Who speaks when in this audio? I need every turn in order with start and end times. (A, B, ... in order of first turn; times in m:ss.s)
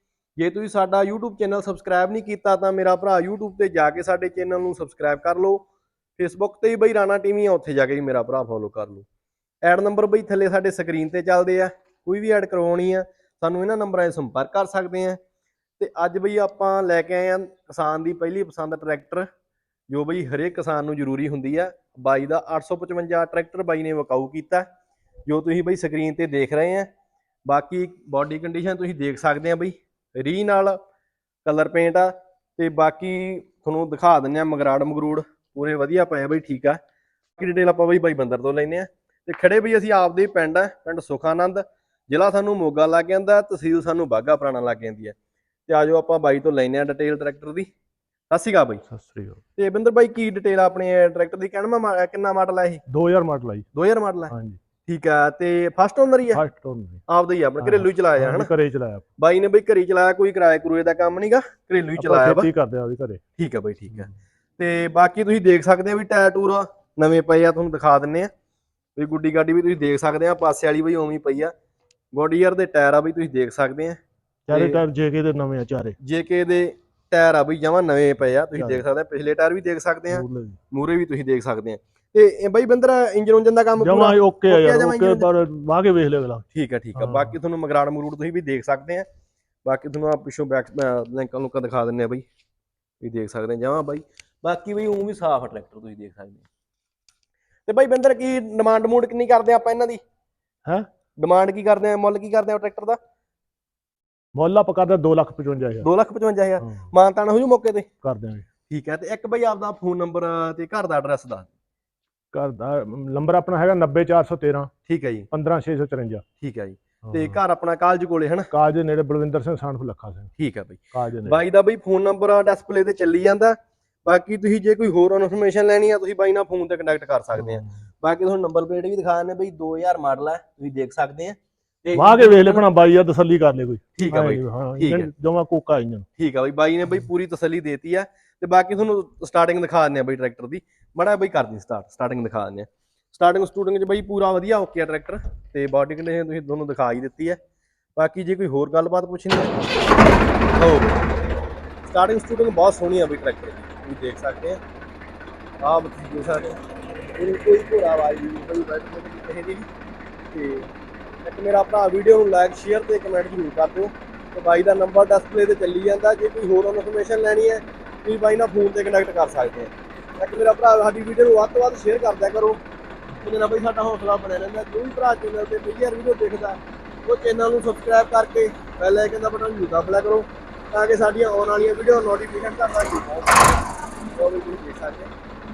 0:00.4-0:05.7 A
0:06.2-0:09.1 A
0:09.6-0:15.2 A
0:15.8-0:19.3 A
0:19.9-0:24.7 A
0:25.3-0:26.9 A
0:27.5-0:30.8 A
0:31.4-0:36.8 A
0:37.4-0:45.2 A
0:45.7-0:47.7 A
0:48.3-0:48.9 A
0:48.9-0:49.4 B
0:49.6-0:52.8 A
0:52.9-0:53.7 B
0:53.7-0:54.3 A
0:54.3-0:54.6 B
0:54.9-0:56.4 A
0:56.3-0:57.0 B
0:57.1-0:58.5 A
0:57.6-0:59.0 B
0:59.2-1:02.5 A
1:02.0-1:03.2 B
1:03.4-1:08.3 A
1:09.0-1:11.5 A
1:12.1-1:14.8 A
1:14.5-1:16.0 B
1:16.0-1:25.3 A
1:18.5-1:18.8 B
1:20.1-1:20.6 B
1:23.8-1:26.4 B
1:26.5-1:29.1 A
1:27.0-1:27.3 B
1:29.6-1:32.2 A
1:33.0-1:36.4 A
1:37.7-1:40.0 A
1:41.2-1:43.0 A
1:44.4-1:45.9 B
1:45.8-1:47.9 A
1:46.6-1:46.9 B
1:48.0-1:48.5 B
1:48.7-1:51.5 A
1:52.3-1:54.7 B
1:54.9-1:55.3 A
1:55.3-1:56.2 B
1:56.4-1:58.5 A
1:57.0-1:57.4 B
1:58.5-2:00.3 B
2:00.4-2:12.6 A
2:00.9-2:01.4 B
2:07.4-2:07.7 B
2:12.0-2:16.1 B
2:14.0-2:15.1 A
2:16.2-2:27.4 A
2:28.0-2:29.5 A
2:30.6-2:31.0 A
2:31.8-2:34.6 A
2:35.6-2:36.6 A
2:37.2-2:39.7 A
2:40.3-2:40.7 A
2:41.2-2:52.6 A
2:53.2-3:03.6 A
3:04.2-3:05.1 A